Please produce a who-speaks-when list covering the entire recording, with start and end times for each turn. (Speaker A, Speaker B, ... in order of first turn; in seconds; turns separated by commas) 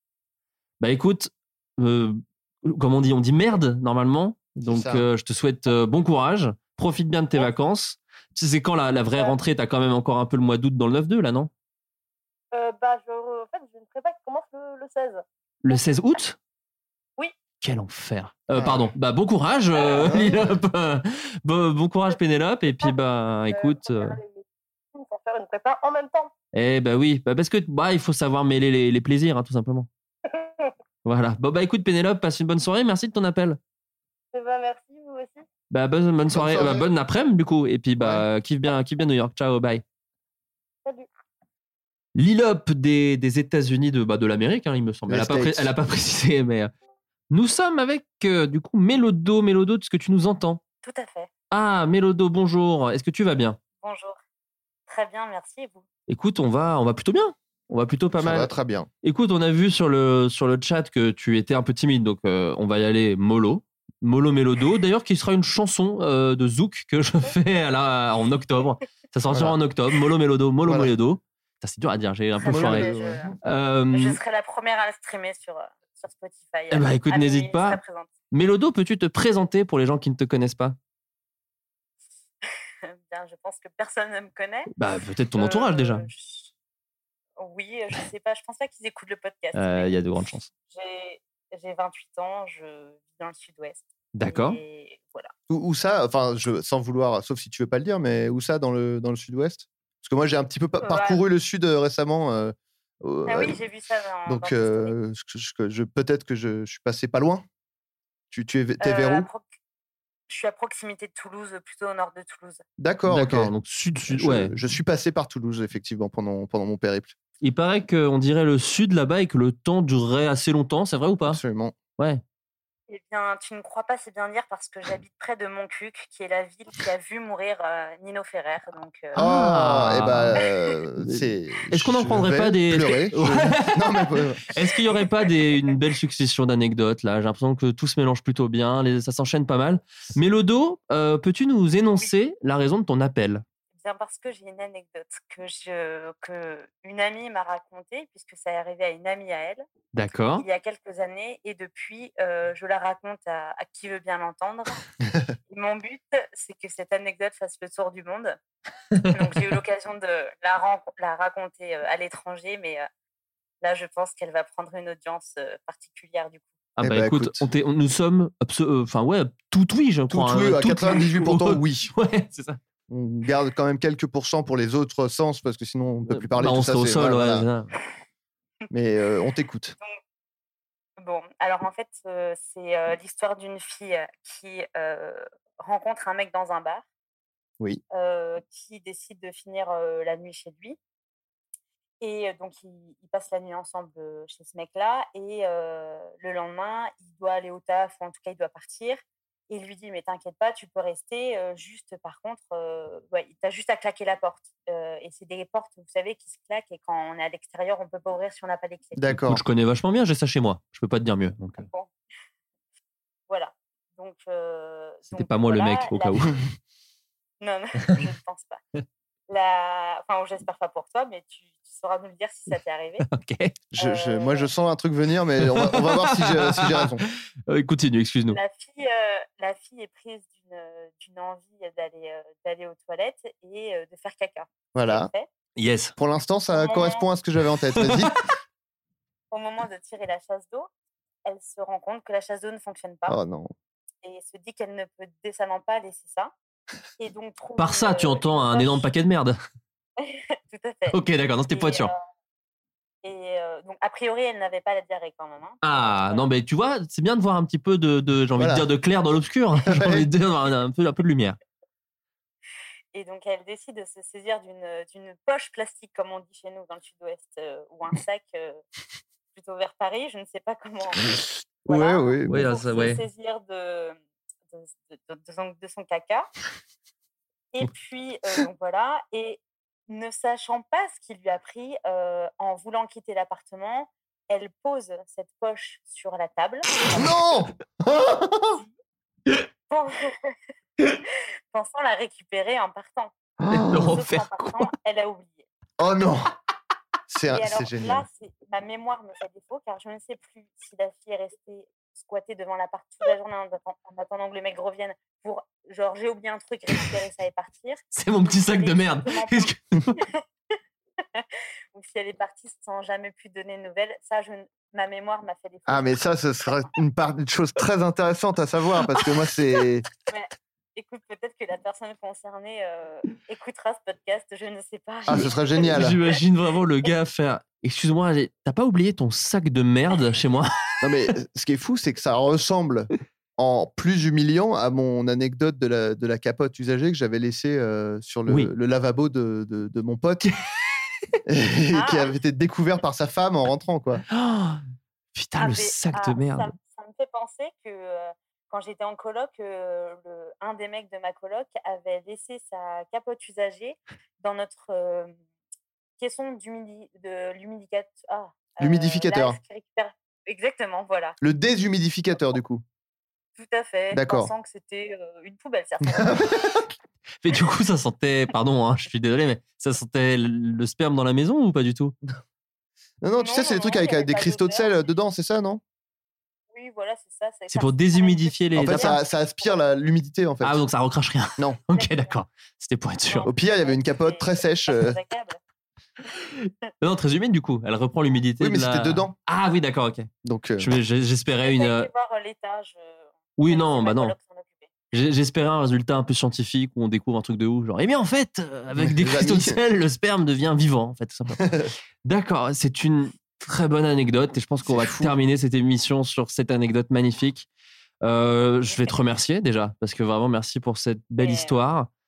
Speaker A: 0.8-11.5, Speaker B: 4.7-5.1, Speaker C: 9.1-9.4, Speaker C: 12.5-15.9, Speaker A: 15.6-16.4, Speaker A: 17.6-24.2, Speaker B: 18.5-18.9, Speaker B: 20.0-20.5, Speaker C: 22.1-26.3, Speaker A: 26.5-29.9, Speaker C: 30.3-30.7, Speaker A: 31.1-33.6, Speaker C: 34.3-35.5, Speaker A: 35.7-39.8, Speaker B: 36.3-36.9, Speaker B: 38.0-38.2, Speaker A: 42.2-46.7, Speaker B: 45.1-45.7, Speaker A: 47.3-50.6, Speaker D: 50.8-51.3, Speaker A: 51.5-53.6, Speaker D: 53.8-54.2, Speaker D: 54.9-55.8, Speaker A: 56.1-58.5, Speaker B: 58.2-58.9, Speaker A: 59.0-72.9, Speaker B: 69.3-69.6, Speaker B: 70.7-70.9, Speaker D: 72.4-73.3, Speaker B: 72.4-73.4, Speaker A: 73.4-74.2, Speaker D: 73.9-78.1, Speaker A: 76.7-80.8, Speaker D: 82.9-84.7, Speaker A: 84.8-86.1, Speaker D: 85.3-86.5, Speaker D: 87.4-90.0, Speaker A: 89.5-90.5, Speaker D: 90.7-95.3, Speaker A: 94.1-94.6, Speaker B: 95.5-103.6, Speaker D: 100.8-101.2, Speaker D: 103.3-104.9, Speaker B: 104.3-107.4, Speaker B: 108.3-109.3, Speaker D: 108.8-109.5, Speaker D: 110.3-112.6, Speaker B: 112.8-113.5, Speaker A: 113.1-114.5, Speaker B: 114.1-117.1, Speaker A: 117.4-121.4, Speaker B: 121.3-121.8, Speaker D: 122.9-129.2, Speaker A: 129.2-130.4, Speaker B: 129.2-134.4, Speaker A: 131.0-143.4, Speaker D: 143.7-149.6, Speaker A: 149.9-150.5, Speaker D: 150.3-154.8, Speaker D: 155.5-158.4, Speaker A: 159.0-159.4, Speaker D: 159.1-162.9, Speaker D: 163.6-166.5, Speaker A: 166.8-172.6, Speaker B: 166.8-167.5, Speaker B: 170.1-171.9, Speaker B: 172.9-177.5, Speaker A: 176.1-177.7, Speaker B: 178.7-179.8, Speaker D: 181.0-186.8, Speaker D: 187.9-190.8, Speaker D: 192.0-209.1, Speaker B: 209.0-209.4, Speaker A: 209.2-211.7, Speaker D: 211.6-211.9, Speaker D: 213.3-216.3, Speaker A: 215.1-216.3, Speaker D: 217.4-218.6, Speaker D: 219.3-223.1, Speaker A: 223.0-223.6, Speaker B: 223.7-227.1, Speaker D: 223.8-224.5, Speaker A: 225.5-228.4, Speaker D: 228.3-235.3, Speaker B: 234.7-235.1, Speaker A: 235.6-235.9, Speaker B: 236.0-238.2, Speaker D: 236.5-237.1, Speaker A: 237.8-238.1, Speaker D: 239.3-240.7, Speaker D: 241.3-243.2, Speaker B: 243.1-243.5, Speaker D: 244.0-246.3, Speaker D: 247.0-248.9, Speaker A: 247.6-249.4, Speaker D: 250.0-252.0, Speaker A: 250.9-251.9, Speaker D: 253.0-256.3, Speaker A: 255.6-261.4, Speaker B: 258.4-258.7, Speaker B: 259.6-260.1, Speaker D: 262.9-268.6, Speaker D: 269.4-271.0, Speaker B: 271.7-272.5, Speaker D: 271.7-274.0, Speaker A: 272.3-273.0, Speaker D: 274.5-276.3, Speaker D: 277.5-287.1, Speaker B: 286.9-288.6, Speaker D: 289.7-290.1, Speaker D: 291.5-293.1, Speaker B: 293.4-293.9, Speaker A: 293.6-294.7, Speaker D: 293.8-295.5, Speaker B: 295.8-296.3, Speaker B: 297.1-298.1, Speaker D: 297.3-310.2, Speaker A: 307.9-310.0, Speaker D: 311.1-316.0, Speaker B: 315.7-319.9, Speaker D: 320.1-326.2, Speaker B: 325.1-326.0, Speaker A: 325.1-330.6, Speaker B: 330.8-340.3, Speaker A: 338.3-338.5, Speaker B: 341.3-344.0, Speaker D: 341.7-342.1, Speaker A: 344.1-344.6, Speaker A: 345.1-346.5, Speaker D: 345.4-355.1, Speaker D: 356.0-361.2, Speaker B: 358.6-359.4, Speaker B: 361.2-362.6, Speaker D: 363.4-366.2, Speaker B: 363.9-364.3, Speaker B: 365.9-366.4, Speaker A: 367.2-371.9, Speaker B: 373.0-375.6, Speaker D: 373.2-374.8, Speaker D: 376.5-379.6, Speaker A: 377.5-379.0, Speaker B: 378.6-380.6, Speaker A: 380.4-383.3, Speaker D: 381.7-382.1, Speaker D: 383.1-385.4, Speaker B: 383.2-385.0, Speaker A: 386.8-391.9, Speaker B: 388.4-389.1, Speaker B: 390.2-390.7, Speaker D: 391.4-394.7, Speaker A: 393.4-394.2, Speaker A: 394.9-401.4, Speaker B: 398.8-399.6, Speaker B: 401.4-401.7, Speaker A: 402.0-407.5, Speaker B: 404.6-405.1, Speaker A: 408.0-411.9, Speaker D: 408.7-409.0, Speaker D: 411.2-411.6